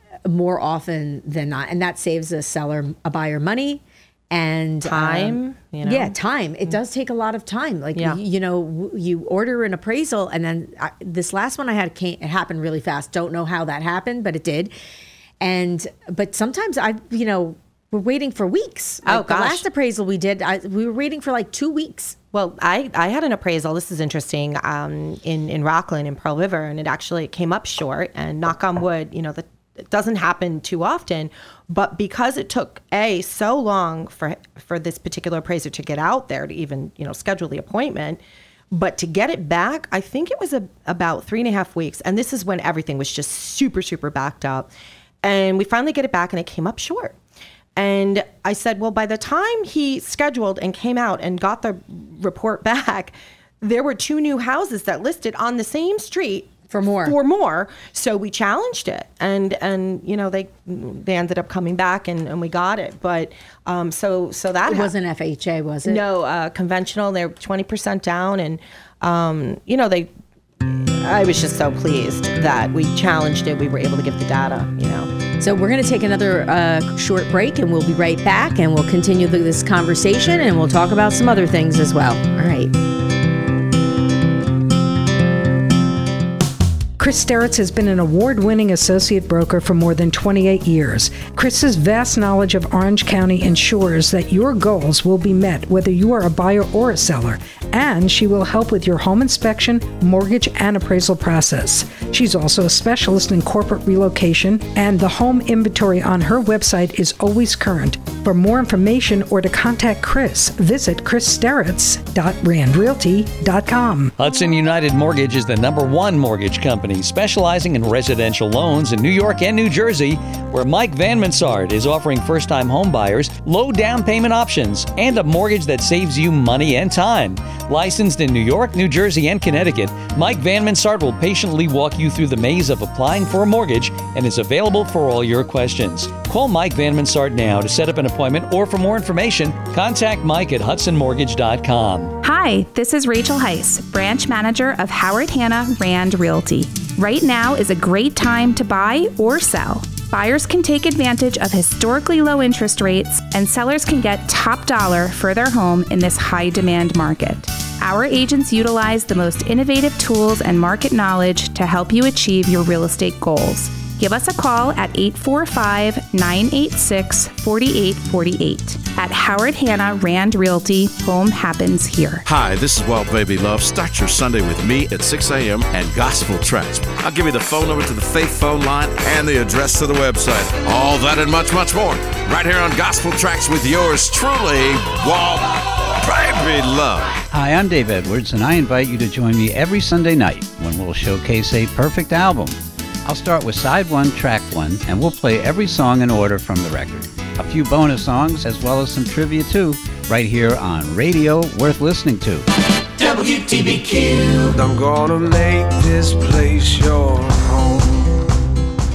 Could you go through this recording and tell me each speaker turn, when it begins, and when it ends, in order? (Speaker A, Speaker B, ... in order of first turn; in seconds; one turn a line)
Speaker A: 0.2-14.7
Speaker B: 4.8-6.1
Speaker A: 15.4-22.2
Speaker B: 19.0-19.6
Speaker B: 22.3-38.2
Speaker B: 38.7-44.7
Speaker B: 45.2-47.2
Speaker B: 47.8-64.9
Speaker A: 56.7-57.2
Speaker A: 64.7-66.0
Speaker B: 65.8-70.1
Speaker B: 70.6-75.1
Speaker A: 75.4-82.7
Speaker C: 87.0-114.1
Speaker D: 114.2-142.1
Speaker E: 142.2-172.2
Speaker F: 172.3-187.1
Speaker G: 187.3-202.4
Speaker H: 203.0-208.3